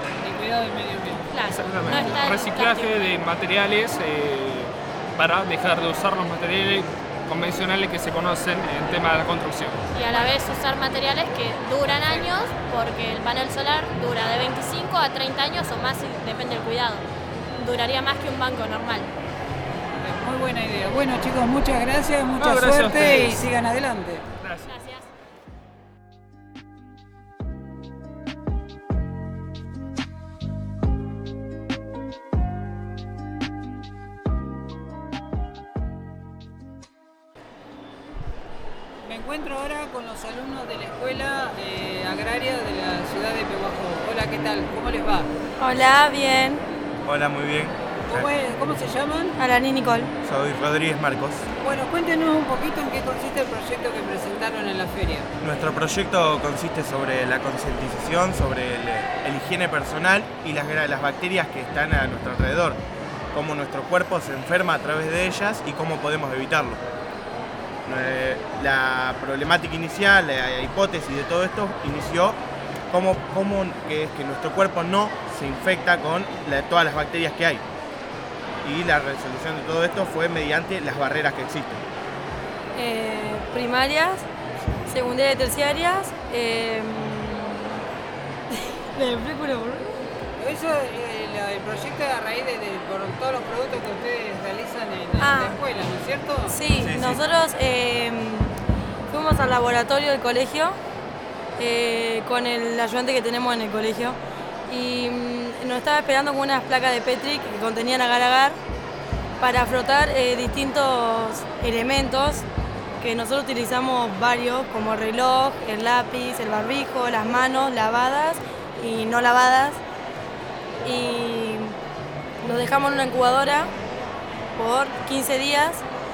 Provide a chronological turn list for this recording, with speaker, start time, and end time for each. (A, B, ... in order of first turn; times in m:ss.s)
0:00.2-0:01.2 A
0:01.3-0:02.9 B
0:01.5-0:09.9 C
0:09.9-0:17.0 B
0:17.6-0:19.1 B
0:20.0-0:24.2 A
0:22.4-0:23.4 C
0:24.4-0:24.7 C
0:24.7-0:25.0 B
0:39.0-0:45.3 A
0:45.6-0:46.6 D
0:47.0-0:48.3 E
0:48.1-0:49.4 A
0:49.4-0:50.1 D
0:50.2-0:51.4 E
0:51.6-0:55.3 A
0:55.4-1:02.8 E
1:03.3-1:06.8 E
1:07.8-1:12.4 E
1:12.9-1:17.6 E
1:18.6-1:21.8 E
1:22.8-1:24.3 D
1:24.9-1:27.8 D
1:28.5-1:29.9 D
1:30.4-1:36.6 A
1:35.2-1:35.6 D
1:36.5-1:38.6 D
1:36.7-1:37.2 E
1:39.1-1:40.8 D
1:41.6-1:48.6 D
1:49.4-1:52.5 D
1:53.0-1:59.8 D
2:00.8-2:01.8 D
2:02.4-2:03.7 D
2:04.6-2:05.8 D